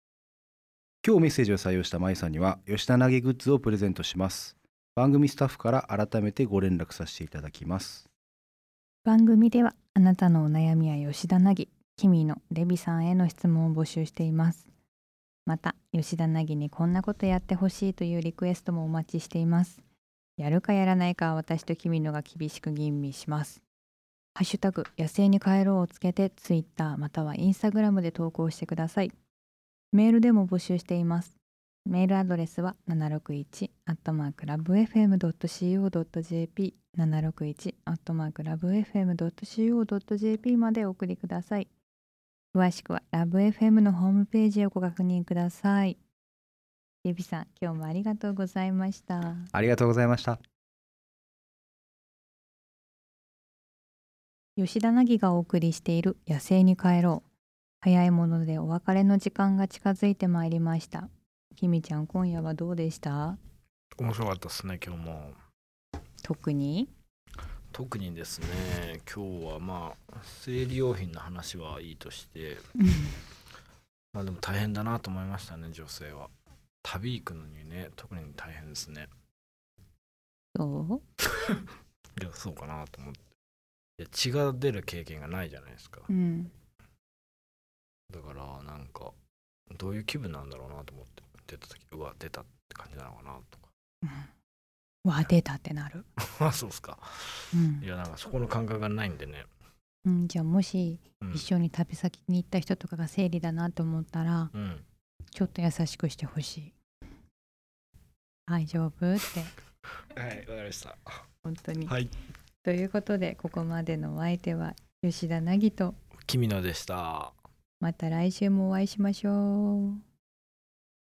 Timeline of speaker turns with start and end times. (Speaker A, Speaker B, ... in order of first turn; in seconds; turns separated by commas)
Speaker A: 1.0-8.1, Speaker B: 9.0-14.7, Speaker B: 15.4-19.8, Speaker B: 20.4-23.6, Speaker B: 24.3-29.1, Speaker B: 29.9-41.7, Speaker B: 42.5-46.0, Speaker B: 47.0-49.5, Speaker A: 49.5-50.4, Speaker B: 54.6-57.2, Speaker B: 57.8-63.4, Speaker C: 64.0-65.4, Speaker B: 66.2-66.9, Speaker C: 67.7-72.7, Speaker B: 72.8-73.1, Speaker C: 74.1-76.3, Speaker C: 76.8-79.1, Speaker B: 80.5-81.0, Speaker C: 82.2-83.2, Speaker C: 84.0-86.1, Speaker B: 86.1-86.5, Speaker C: 88.1-89.1, Speaker C: 89.7-93.7, Speaker B: 94.0-94.3, Speaker B: 95.0-96.0, Speaker C: 96.2-99.5, Speaker B: 97.5-97.8, Speaker B: 100.0-104.5, Speaker C: 101.2-101.5, Speaker C: 104.5-104.8, Speaker B: 105.3-106.7, Speaker B: 108.5-109.5, Speaker C: 110.1-111.2, Speaker B: 111.4-111.9, Speaker B: 112.6-116.0, Speaker C: 116.2-117.3, Speaker B: 117.8-120.0